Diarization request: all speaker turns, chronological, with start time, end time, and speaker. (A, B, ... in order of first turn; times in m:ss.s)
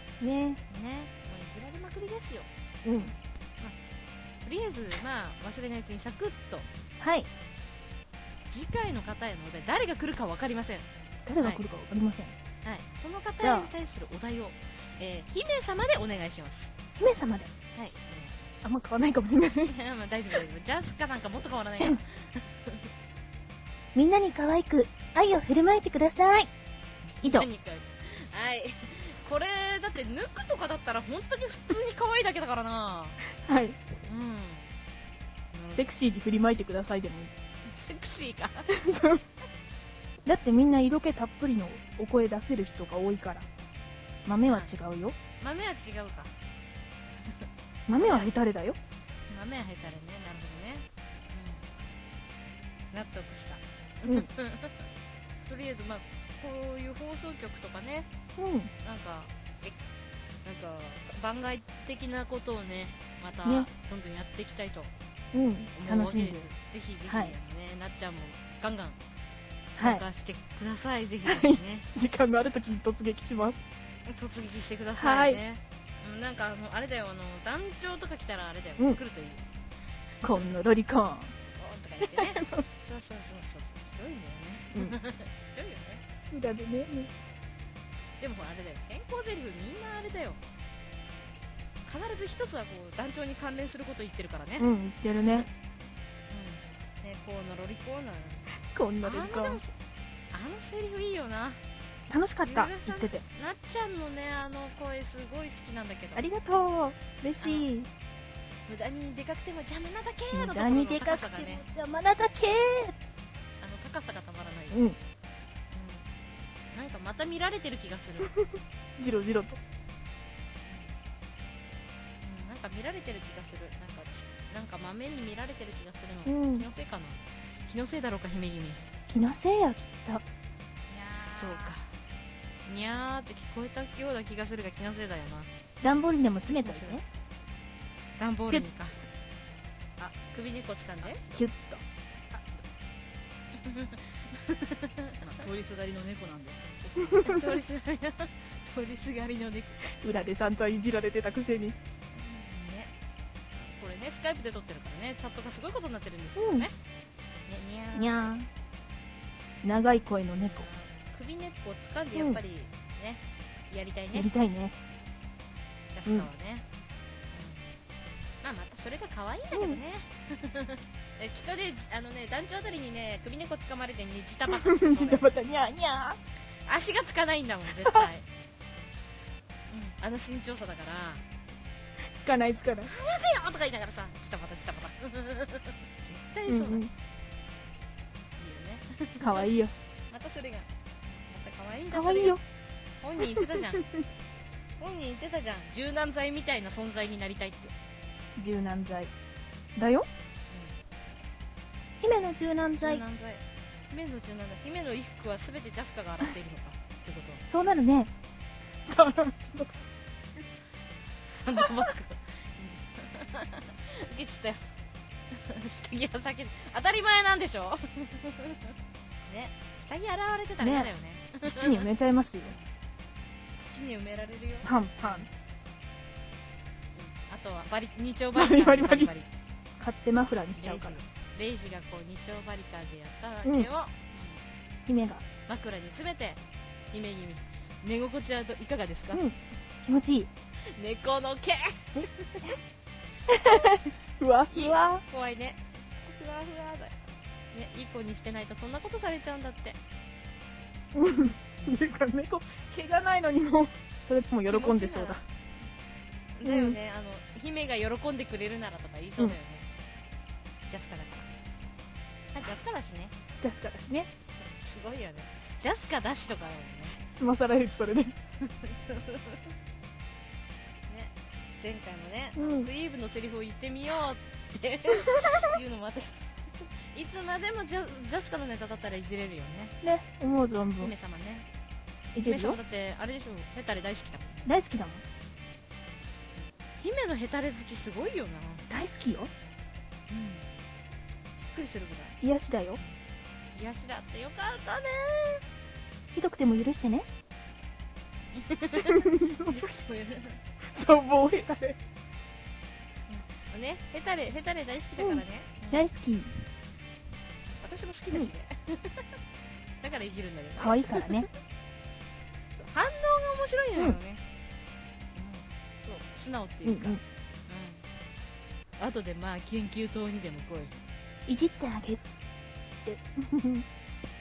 0:00.2-0:00.6 A
0:00.7-0:03.8 B
0:02.8-0:03.1 A
0:04.4-0:06.7 B
0:07.0-0:07.3 A
0:08.5-0:10.8 B
0:11.2-0:12.3 A
0:11.4-0:11.6 B
0:12.6-0:16.7 B
0:13.4-0:13.7 A
0:17.0-0:17.5 A
0:17.7-0:18.4 B
0:18.6-0:19.7 A
0:19.6-0:22.9 B
0:23.9-0:26.5 A
0:27.1-0:33.2 B
0:27.2-0:27.5 A
0:33.4-0:33.8 A
0:34.0-0:34.7 B
0:35.5-0:35.9 B
0:35.8-0:37.3 A
0:37.7-0:38.7 B
0:38.7-0:39.2 A
0:40.2-0:43.5 A
0:44.2-0:45.2 A
0:44.4-0:44.7 B
0:45.4-0:46.3 B
0:47.9-0:48.8 A
0:48.0-0:48.4 B
0:49.3-0:51.7 B
0:52.9-0:54.9 B
0:55.4-0:58.1 B
0:58.4-0:58.7 A
0:58.8-0:59.8 B
1:00.4-1:04.9 B
1:03.4-1:03.7 A
1:05.3-1:06.4 A
1:05.7-1:09.0 B
1:07.1-1:07.3 A
1:09.7-1:11.8 B
1:09.8-1:10.0 A
1:11.2-1:13.6 A
1:14.1-1:19.5 B
1:15.0-1:15.4 A
1:20.2-1:21.3 A
1:21.6-1:26.0 B
1:22.0-1:22.6 A
1:26.3-1:27.1 A
1:28.2-1:30.4 B
1:31.8-1:34.7 B
1:34.6-1:35.5 A
1:36.3-1:38.5 B
1:38.7-1:39.6 A
1:39.0-1:39.7 B
1:40.3-1:41.6 B
1:42.1-1:43.2 A
1:42.4-1:46.2 B
1:46.2-1:47.9 A
1:47.4-1:47.7 B
1:48.7-1:51.6 B
1:50.3-1:52.9 A
1:53.6-1:54.8 B
1:54.7-1:55.0 A
1:55.7-1:56.1 B
1:56.7-1:58.3 B
1:59.0-1:59.6 A
2:00.6-2:01.0 B
2:02.2-2:08.8 B
2:06.2-2:06.7 A
2:09.1-2:10.2 A
2:10.9-2:11.8 C
2:11.3-2:11.9 B
2:12.6-2:15.5 B
2:15.8-2:17.0 A
2:16.5-2:17.0 B
2:18.2-2:19.0 B
2:20.0-2:21.2 B
2:21.2-2:21.8 A
2:22.3-2:22.6 C
2:23.6-2:25.2 B
2:25.2-2:27.2 C
2:27.0-2:27.6 A
2:27.1-2:29.8 B
2:30.0-2:31.8 A
2:32.1-2:32.9 B
2:33.6-2:36.7 B
2:36.4-2:36.7 A
2:37.5-2:38.3 B
2:37.9-2:38.5 A
2:39.6-2:40.7 A
2:40.4-2:44.3 B
2:44.1-2:44.7 A
2:45.9-2:46.6 B
2:47.3-2:47.6 B
2:48.4-2:55.3 B
2:49.5-2:49.8 A
2:54.5-2:56.2 A
2:56.6-2:58.2 B
2:59.7-3:01.2 B
3:02.1-3:02.9 A
3:02.9-3:06.9 B
3:06.5-3:06.9 A
3:08.4-3:09.5 B
3:09.2-3:09.7 A
3:10.1-3:12.4 B
3:11.9-3:12.4 A
3:13.0-3:13.8 B
3:13.2-3:14.0 A
3:14.8-3:17.7 B
3:18.4-3:19.1 A
3:19.8-3:20.1 A
3:20.5-3:20.8 B
3:22.0-3:23.0 A
3:22.1-3:27.4 B
3:27.5-3:28.1 A
3:28.8-3:29.8 A
3:31.4-3:34.6 B
3:35.3-3:38.7 B
3:39.3-3:41.8 B
3:40.6-3:40.9 A
3:41.4-3:42.5 A
3:43.6-3:45.3 B
3:44.6-3:45.3 A
3:46.9-3:49.3 B
3:48.3-3:49.1 A
3:49.8-3:51.0 A
3:50.6-3:54.4 B
3:54.9-3:55.2 A
3:55.5-3:56.4 B
3:56.9-3:59.2 B
3:59.1-4:00.3 A
4:00.7-4:02.6 B
4:03.3-4:05.0 A
4:04.5-4:07.0 B
4:07.5-4:09.8 B
4:10.9-4:15.2 A
4:14.5-4:15.2 B
4:16.4-4:19.7 B
4:16.4-4:16.8 A
4:20.7-4:21.3 B
4:22.3-4:23.1 B
4:23.4-4:24.1 A
4:24.4-4:27.0 B
4:27.1-4:28.1 A
4:28.4-4:29.5 B
4:30.9-4:39.7 B
4:32.4-4:32.7 A
4:39.8-4:40.9 A
4:40.8-4:41.4 B
4:42.1-4:42.6 A
4:42.2-4:44.5 B
4:44.4-4:45.0 A
4:46.4-4:48.6 B
4:48.7-4:49.3 A
4:50.1-4:50.5 B
4:51.4-4:52.2 B
4:52.2-4:52.8 A
4:53.5-4:55.4 B
4:56.1-4:57.0 A
4:58.3-5:00.4 B
4:58.8-4:59.6 A
5:00.7-5:01.8 A
5:03.1-5:05.9 B
5:05.0-5:06.3 A
5:07.6-5:09.1 B
5:09.8-5:11.1 B
5:10.6-5:11.3 A
5:12.6-5:14.2 B
5:15.1-5:17.8 B
5:16.6-5:17.0 A
5:18.8-5:20.7 B
5:21.3-5:22.1 A
5:22.8-5:23.6 A